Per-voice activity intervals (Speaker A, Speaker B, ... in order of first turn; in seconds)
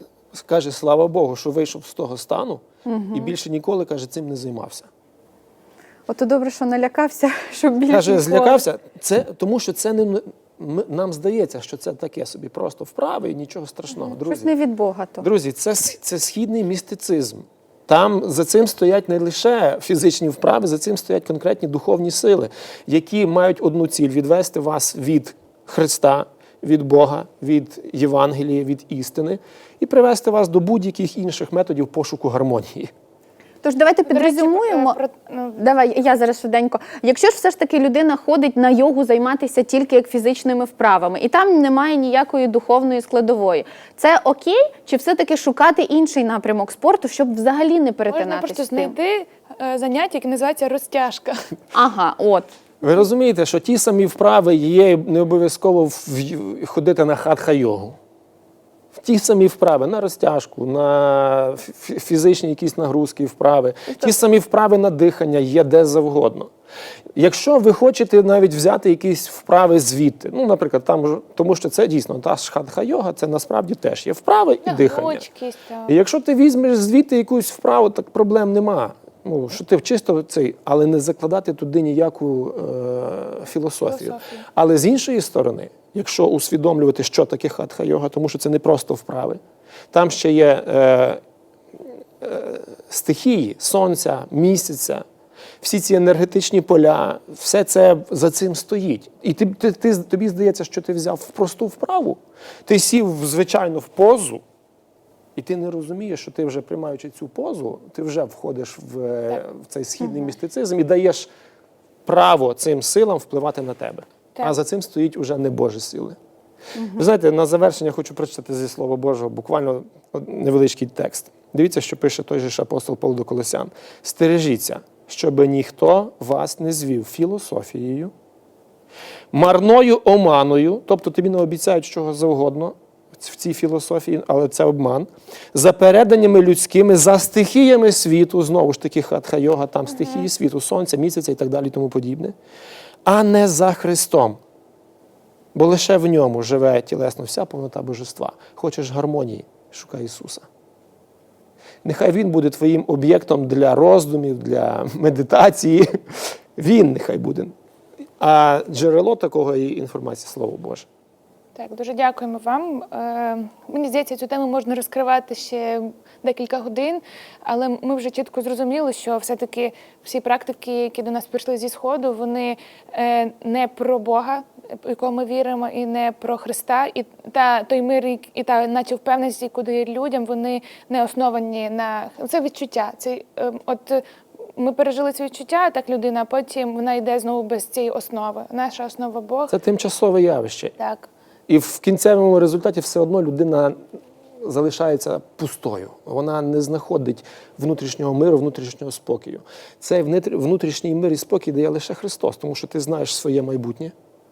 Speaker A: 0.3-4.9, 7.9-14.5, 15.2-32.9, 52.8-58.0, 59.0-66.5, 67.2-75.2, 75.9-89.4, 89.9-91.2, 92.2-95.0, 95.6-104.4, 105.4-111.3, 112.1-116.2, 116.8-128.1, 129.3-142.3, 143.1-144.4, 145.6-150.5, 151.8-157.5, 158.2-160.9, 189.5-190.7, 191.5-193.8, 194.4-203.9
Speaker B: 2.9-3.3, 6.1-8.6, 14.0-15.3, 33.6-35.0, 35.6-49.0, 51.7-52.5
Speaker C: 34.1-35.6, 48.1-51.5, 74.6-75.9, 83.9-84.4, 161.6-189.5, 190.8-191.1